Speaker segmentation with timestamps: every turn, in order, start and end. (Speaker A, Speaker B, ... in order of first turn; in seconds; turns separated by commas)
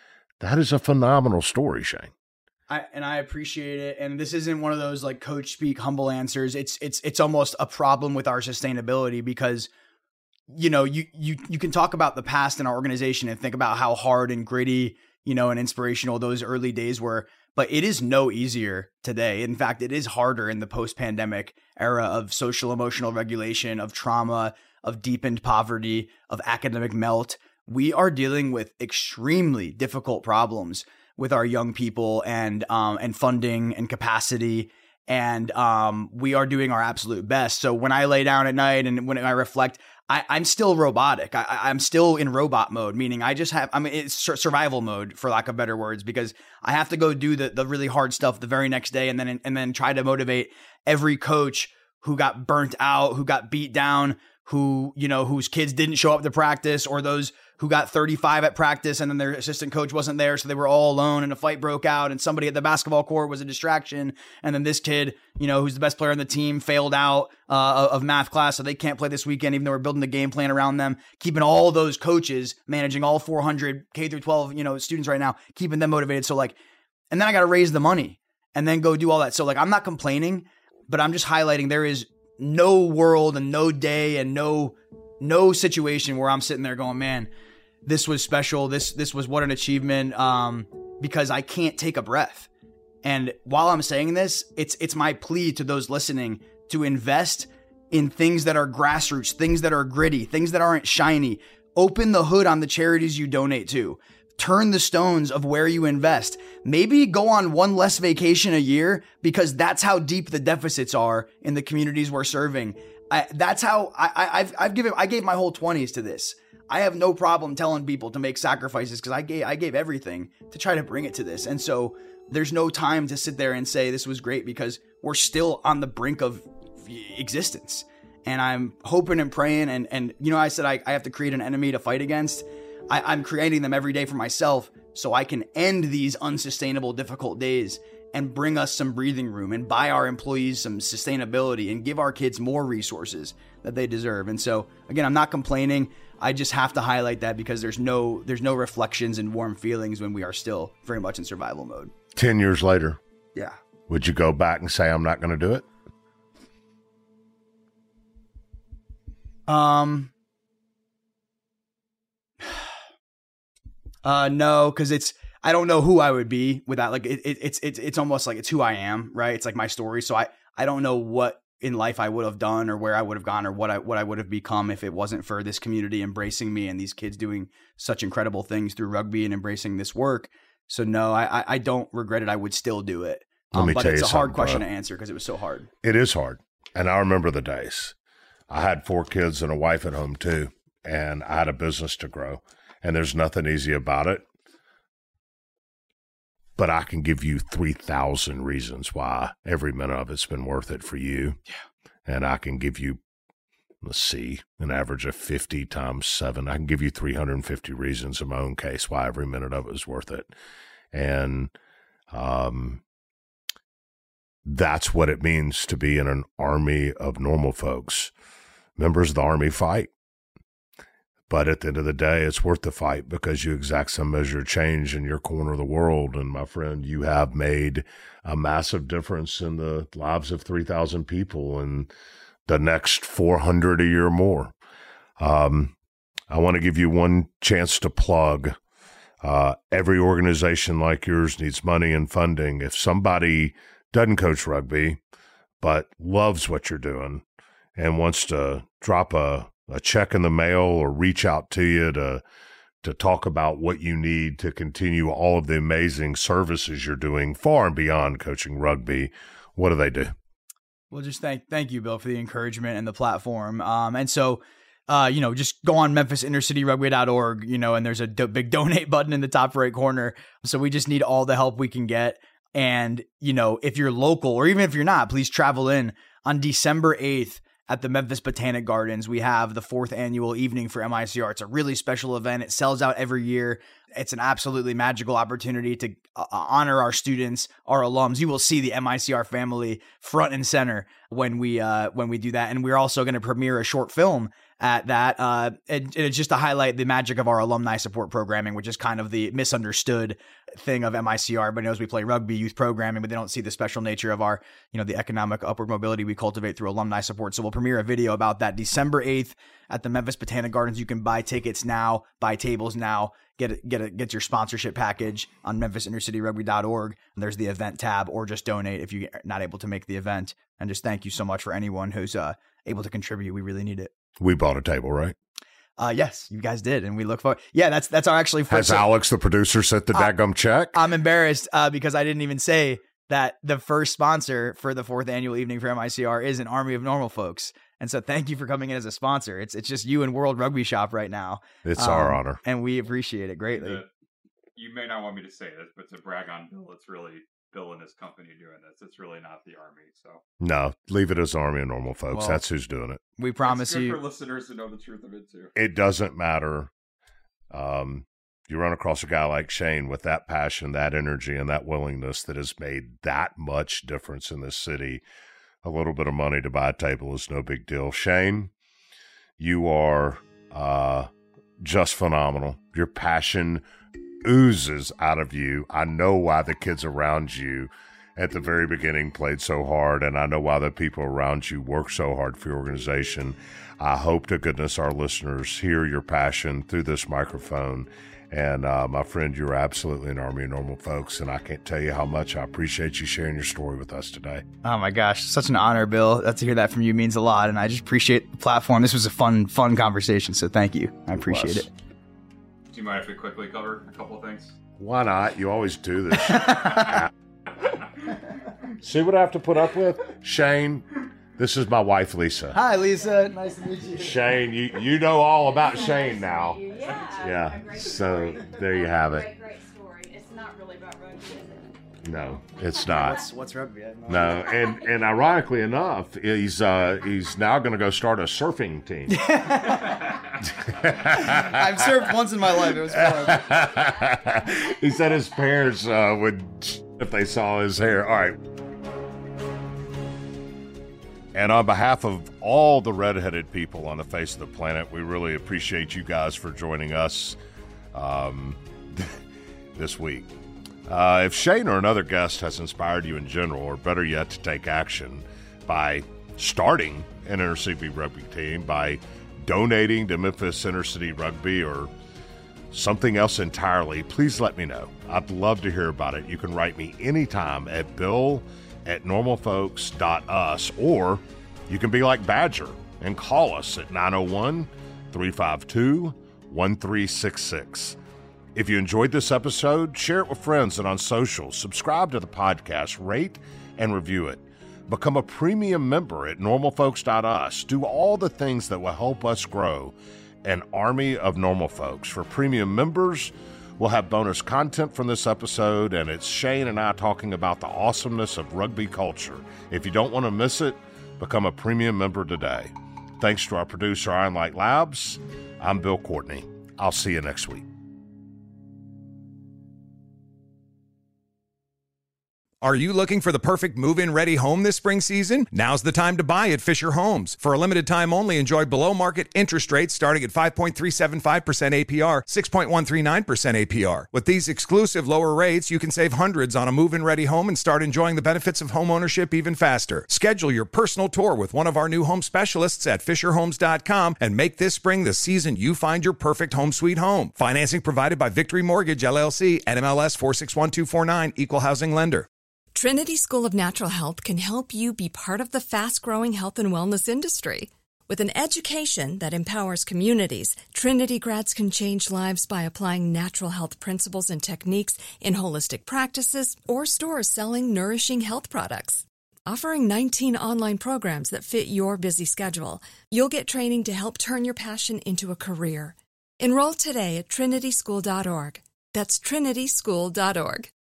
Speaker A: 0.4-2.1, Speaker B: 2.7-9.7, Speaker B: 10.5-76.5, Speaker B: 77.1-87.3, Speaker B: 87.8-92.5, Speaker B: 93.0-151.9, Speaker A: 152.1-153.0, Speaker A: 153.9-155.7, Speaker B: 159.5-160.1, Speaker B: 162.4-162.7, Speaker B: 164.0-185.7, Speaker A: 183.5-184.6, Speaker A: 185.8-187.9, Speaker A: 188.5-194.2, Speaker A: 196.6-201.4, Speaker A: 202.1-203.0, Speaker A: 203.8-210.3, Speaker A: 210.9-211.5, Speaker A: 212.1-212.8, Speaker A: 214.4-218.1, Speaker A: 218.8-219.9, Speaker A: 221.3-231.9, Speaker A: 232.5-234.5, Speaker A: 235.2-235.7, Speaker A: 236.3-238.6, Speaker A: 239.2-245.0, Speaker A: 245.6-247.2, Speaker A: 247.8-252.2, Speaker A: 252.8-260.1, Speaker B: 260.9-323.9, Speaker A: 324.2-325.1, Speaker B: 325.8-328.9, Speaker A: 328.5-330.8, Speaker B: 330.7-343.8, Speaker A: 341.6-342.4, Speaker C: 343.5-343.9, Speaker C: 344.6-350.2, Speaker A: 350.4-353.0, Speaker B: 352.1-352.4, Speaker B: 353.2-354.0, Speaker C: 353.4-355.5, Speaker A: 355.5-356.7, Speaker A: 357.5-365.0, Speaker A: 365.6-368.5, Speaker A: 369.4-371.1, Speaker A: 371.6-373.6, Speaker A: 374.2-394.4, Speaker B: 394.6-401.7, Speaker A: 401.1-401.7, Speaker C: 402.7-404.6, Speaker A: 404.8-407.1, Speaker B: 406.3-407.0, Speaker A: 408.8-410.8, Speaker A: 411.4-412.6, Speaker B: 412.5-414.2, Speaker A: 413.9-419.3, Speaker D: 415.5-421.8, Speaker A: 422.0-423.2, Speaker B: 422.9-424.5, Speaker A: 424.1-429.7, Speaker D: 424.5-424.8, Speaker B: 429.1-430.2, Speaker A: 430.4-432.1, Speaker B: 430.9-433.6, Speaker A: 432.9-438.4, Speaker A: 441.3-447.4, Speaker A: 447.9-449.2, Speaker A: 449.7-450.3, Speaker A: 450.9-461.9, Speaker A: 462.7-478.0, Speaker A: 478.5-507.7, Speaker E: 512.6-542.3, Speaker F: 542.7-570.7